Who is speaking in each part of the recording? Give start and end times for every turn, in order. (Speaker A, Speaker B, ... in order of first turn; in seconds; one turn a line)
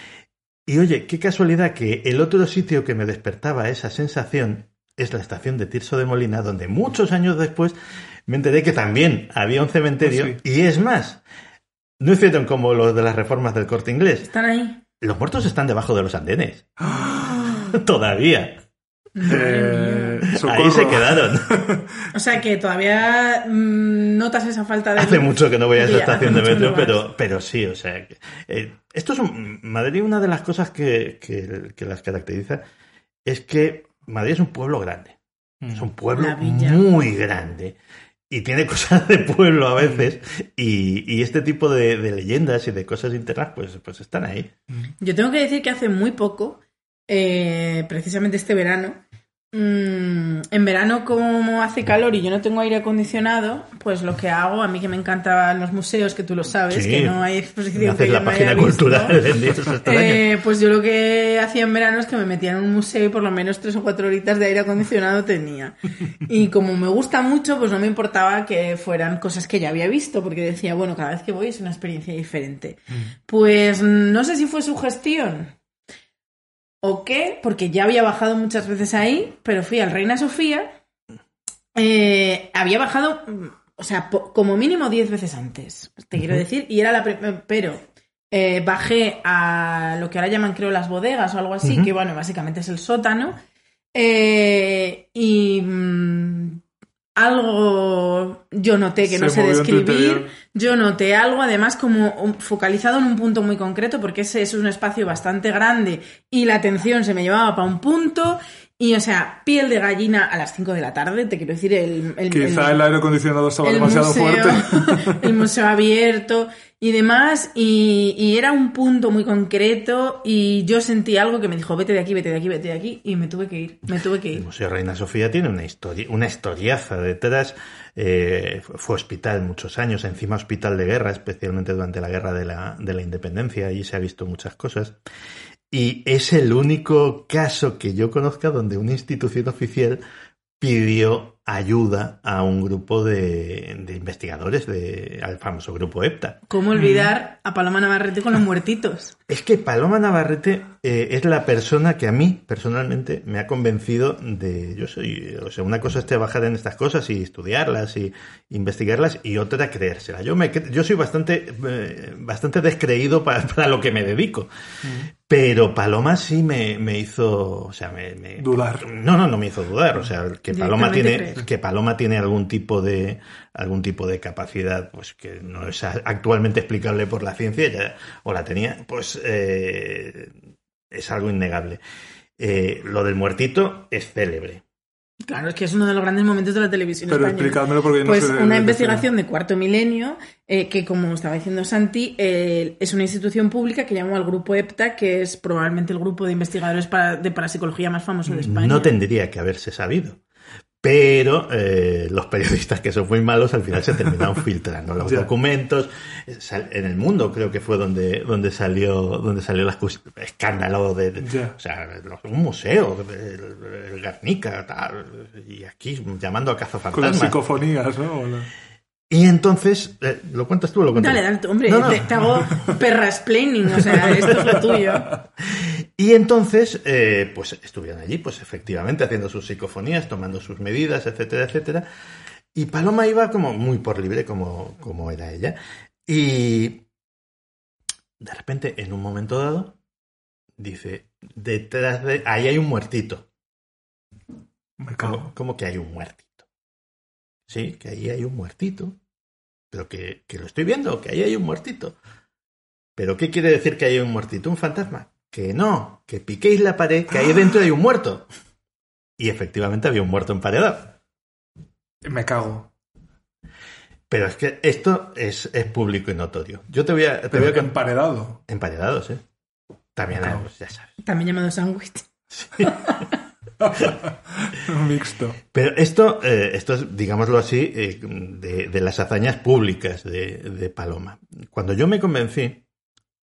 Speaker A: 0.7-7.7
Speaker A: 8.3-11.2
Speaker B: 10.0-10.4
Speaker A: 12.0-14.3
Speaker C: 14.2-14.8
Speaker A: 15.0-16.7
Speaker B: 16.8-17.7
Speaker A: 17.4-18.6
Speaker C: 19.1-20.2
Speaker B: 19.2-21.9
Speaker A: 20.3-21.6
Speaker C: 22.1-27.0
Speaker A: 24.9-32.6
Speaker A: 33.2-35.2
Speaker A: 35.7-37.8
Speaker C: 36.2-36.8
Speaker A: 38.3-44.5
Speaker B: 39.8-40.1
Speaker C: 45.0-49.0
Speaker C: 49.5-59.2
Speaker A: 56.7-57.2
Speaker A: 57.7-60.2
Speaker C: 59.8-75.5
Speaker C: 76.8-80.7
Speaker C: 81.7-93.4
Speaker A: 91.6-91.9
Speaker C: 93.9-96.6
Speaker C: 97.2-112.8
Speaker B: 99.0-100.3
Speaker B: 112.3-115.1
Speaker C: 113.6-124.4
Speaker A: 124.3-134.9
Speaker A: 135.7-140.0
Speaker A: 140.6-146.4
Speaker C: 146.5-149.1
Speaker B: 146.8-147.1
Speaker A: 149.3-164.5
Speaker B: 164.8-165.1
Speaker A: 165.2-180.3
Speaker B: 168.4-168.9
Speaker C: 170.5-171.4
Speaker A: 180.9-181.8
Speaker A: 182.4-184.6
Speaker C: 185.3-198.9
Speaker B: 187.1-189.1
Speaker A: 198.4-200.2
Speaker A: 200.8-217.4
Speaker B: 205.0-205.3
Speaker B: 211.2-211.5
Speaker B: 216.9-218.5
Speaker A: 219.1-222.1
Speaker C: 220.9-225.1
Speaker B: 224.1-224.8
Speaker A: 225.5-231.8
Speaker A: 232.5-236.8
Speaker A: 238.2-239.8
Speaker A: 240.6-243.2
Speaker B: 244.8-245.3
Speaker A: 245.0-246.4
Speaker A: 247.5-249.0
Speaker A: 249.7-251.9
Speaker A: 252.9-258.3
Speaker A: 259.2-260.9
Speaker B: 262.0-262.7
Speaker A: 264.1-267.7
Speaker B: 267.3-268.4
Speaker A: 268.5-269.2
Speaker A: 269.9-270.9
Speaker B: 270.2-270.4
Speaker C: 271.0-272.1
Speaker A: 272.3-272.7
Speaker C: 272.6-273.0
Speaker B: 273.6-275.4
Speaker A: 275.5-282.6